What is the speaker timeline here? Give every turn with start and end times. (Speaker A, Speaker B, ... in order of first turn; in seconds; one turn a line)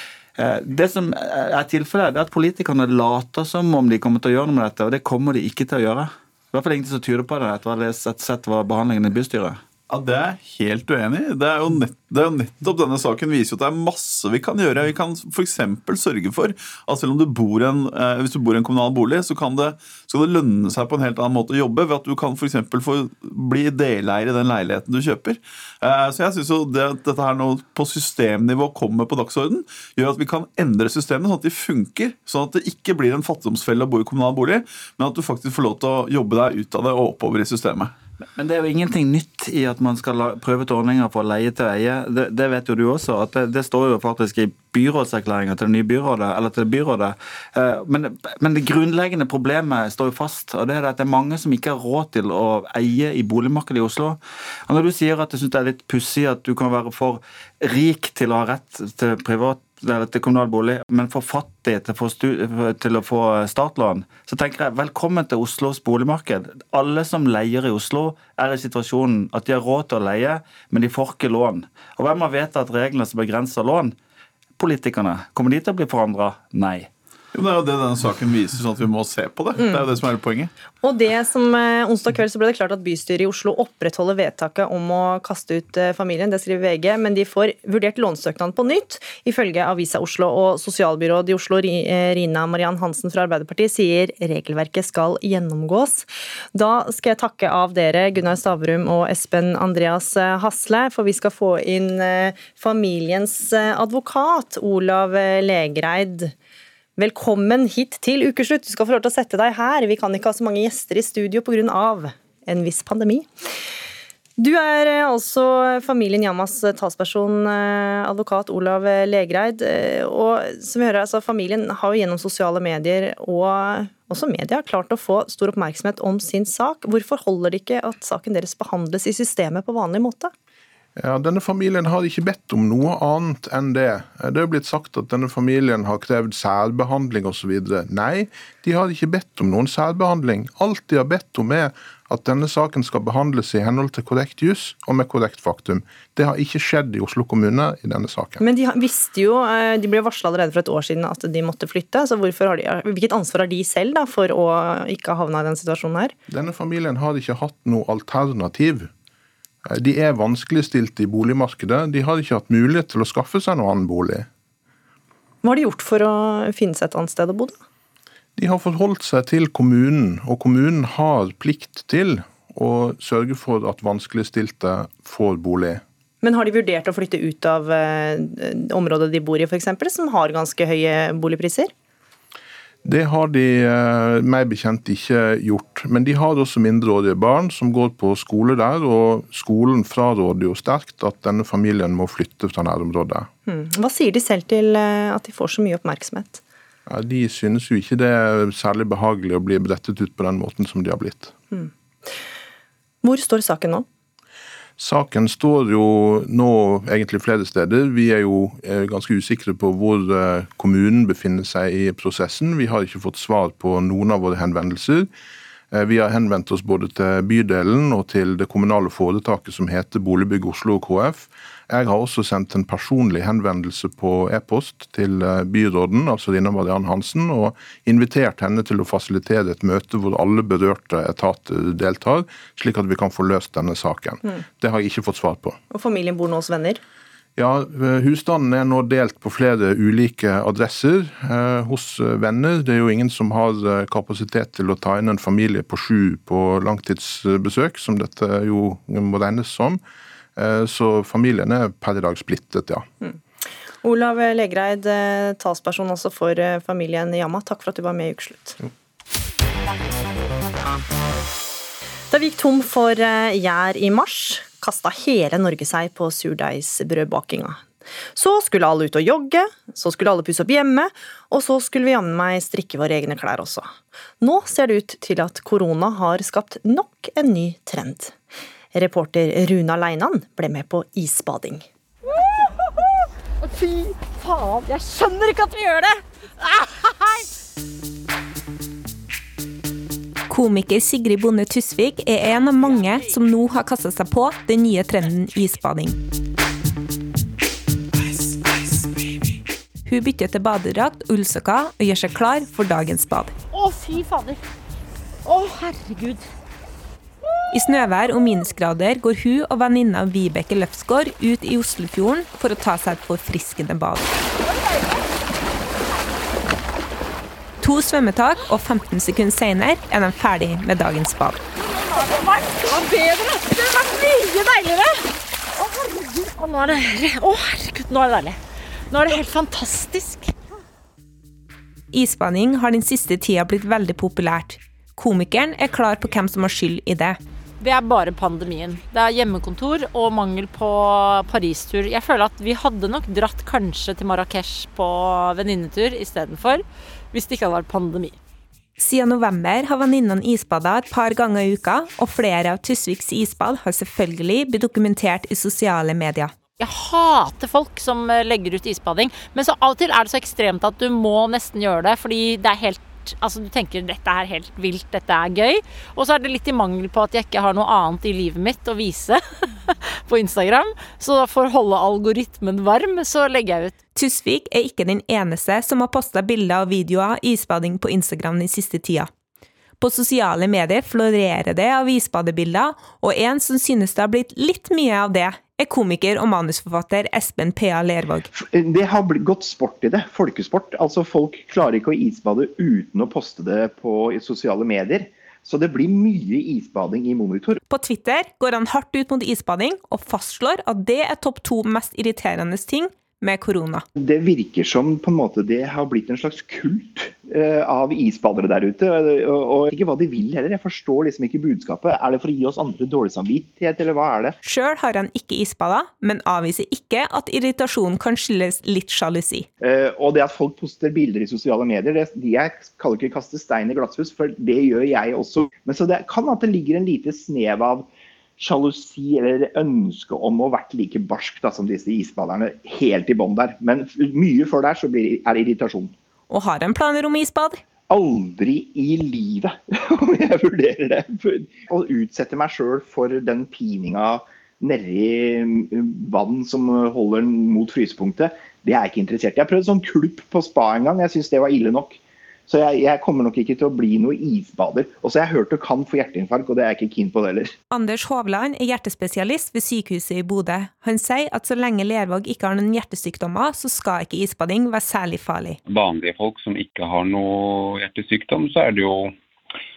Speaker A: 0.4-9.6
Speaker B: 9.9-37.9
Speaker A: 38.4-73.9
Speaker A: 74.6-76.9
Speaker B: 77.3-80.5
Speaker C: 79.5-79.9
Speaker C: 80.8-106.3
Speaker C: 107.0-113.3
Speaker C: 114.4-130.3
Speaker D: 131.0-148.4
Speaker C: 148.4-156.1
Speaker D: 156.3-158.9
Speaker D: 159.7-164.3
Speaker C: 165.4-167.6
Speaker D: 168.4-175.8
Speaker C: 176.2-181.7
Speaker D: 182.8-193.3
Speaker C: 193.5-196.4
Speaker D: 196.9-201.3
Speaker C: 201.5-202.1
Speaker C: 203.0-203.8
Speaker D: 204.8-215.1
Speaker D: 215.7-235.6
Speaker C: 235.7-236.8
Speaker D: 237.4-249.8
Speaker D: 250.4-252.8
Speaker C: 253.8-258.6
Speaker C: 262.1-278.2
Speaker C: 278.7-281.6
Speaker E: 282.1-287.2
Speaker F: 290.3-296.0
Speaker F: 299.9-303.3
Speaker E: 303.5-304.4
Speaker E: 305.2-306.3
Speaker F: 307.5-314.1
Speaker F: 317.6-321.4
Speaker E: 321.6-330.3
Speaker F: 331.9-337.2
Speaker E: 337.6-348.2
Speaker F: 348.8-356.3
Speaker E: 356.6-369.2
Speaker E: 370.1-373.8
Speaker F: 373.9-379.1
Speaker F: 379.8-388.3
Speaker G: 388.3-397.6
Speaker F: 397.7-403.8
Speaker G: 404.0-414.3
Speaker F: 414.4-419.5
Speaker G: 419.6-427.9
Speaker G: 428.4-435.9
Speaker F: 436.3-437.6
Speaker G: 437.9-457.5
Speaker F: 457.7-465.6
Speaker H: 465.7-469.1